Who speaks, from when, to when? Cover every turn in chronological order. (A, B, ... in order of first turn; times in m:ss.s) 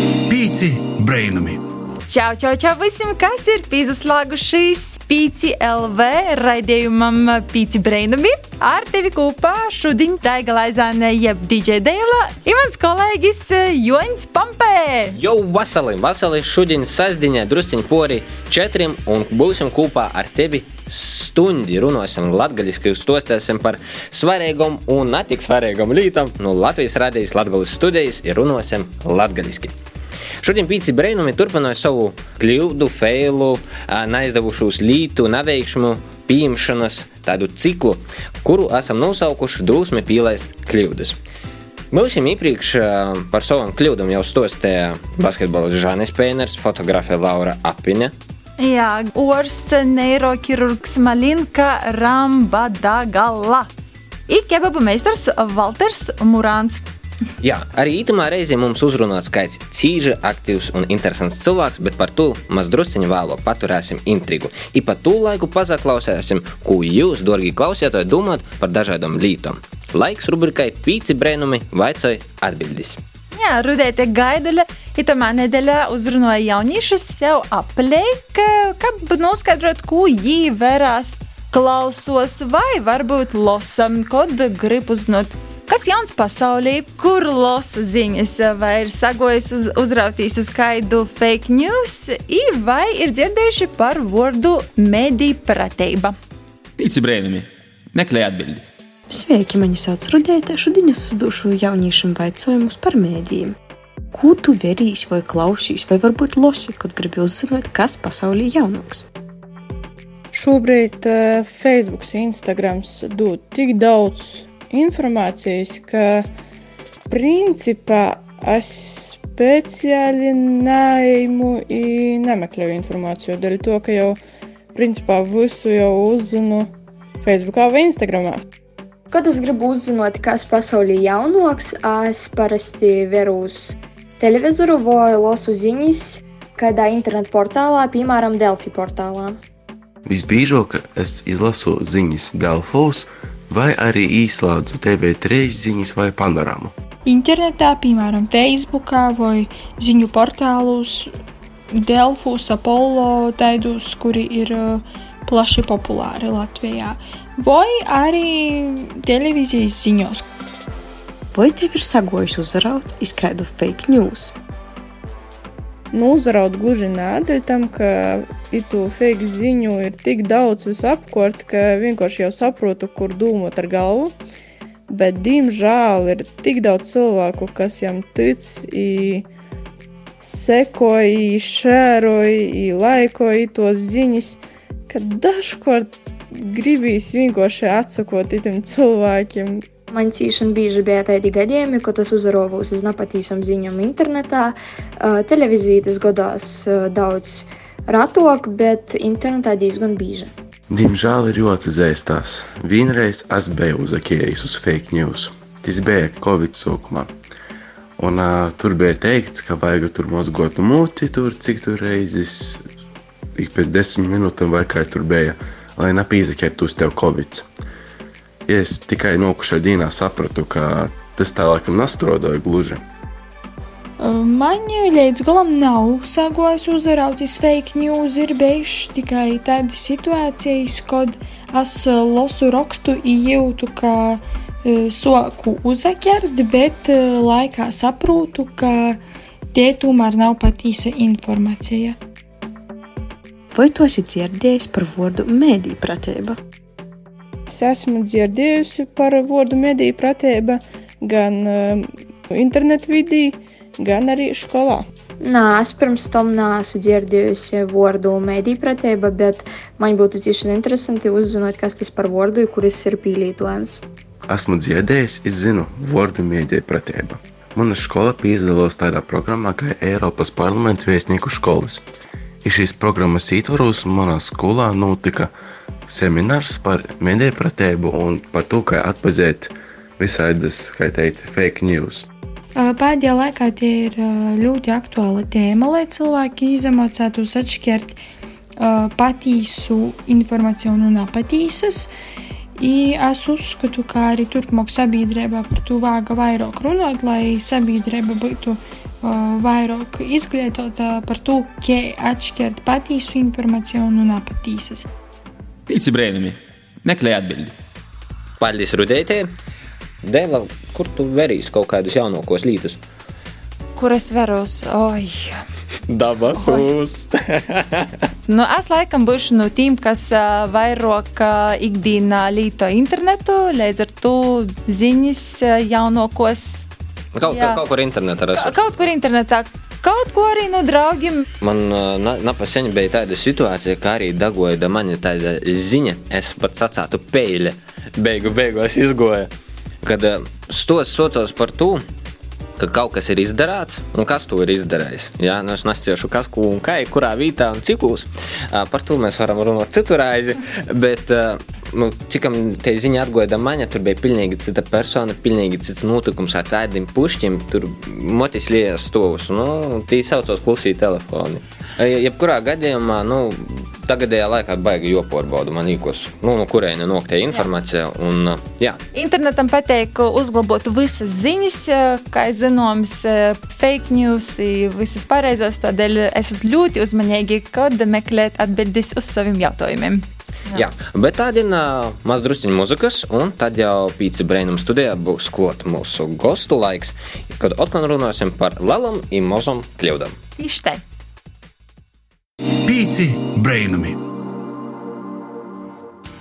0:00.2-0:01.6 A
0:02.1-0:15.1 B
0:15.1-0:29.7 C
0:30.4-0:41.2 C
0:41.9-0:48.1 C
0:48.6-0:53.7 B
0:54.3-0:56.8 B
0:57.4-1:13.0 C
1:13.3-1:36.2 B
1:36.8-1:38.6 D
1:39.1-1:43.6 E
1:44.1-1:49.0 E
1:50.3-1:56.3 F
1:57.1-2:04.2 F
2:04.7-2:06.7 F
2:07.2-2:08.4 F
2:09.1-2:19.4 G
2:20.1-2:26.7 H
2:27.0-2:31.1 I
2:31.7-2:40.2 I
2:41.3-2:44.3 E
2:45.9-2:54.2 F
2:54.9-2:59.3 F
3:00.2-3:09.6 F
3:09.9-3:20.3 G
3:20.7-3:27.1 H
3:28.0-3:32.6 H
3:33.4-3:37.5 H
3:38.5-3:42.8 H
3:44.0-3:59.0 I
3:59.5-4:02.0 I
4:03.5-4:06.4 E
4:07.5-4:14.8 F
4:15.2-4:23.8 G
4:24.3-4:31.8 H
4:32.4-4:35.3 H
4:35.9-4:42.0 H
4:42.6-4:48.0 I
4:48.6-4:51.9 I
4:52.6-5:04.9 I
5:05.7-5:07.5 D
5:08.4-5:09.3 C
5:10.0-5:12.8 C
5:13.8-5:15.4 B
5:15.9-5:17.9 C
5:16.4-5:16.6 B
5:18.3-5:26.7 B
5:27.1-5:28.6 C
5:27.2-5:27.6 B
5:28.3-5:31.2 B
5:31.4-5:39.3 C
5:39.8-5:41.8 C
5:42.6-6:08.8 C
6:08.9-6:20.6 B
6:20.5-6:30.1 C
6:30.4-6:30.8 B
6:32.6-6:34.0 A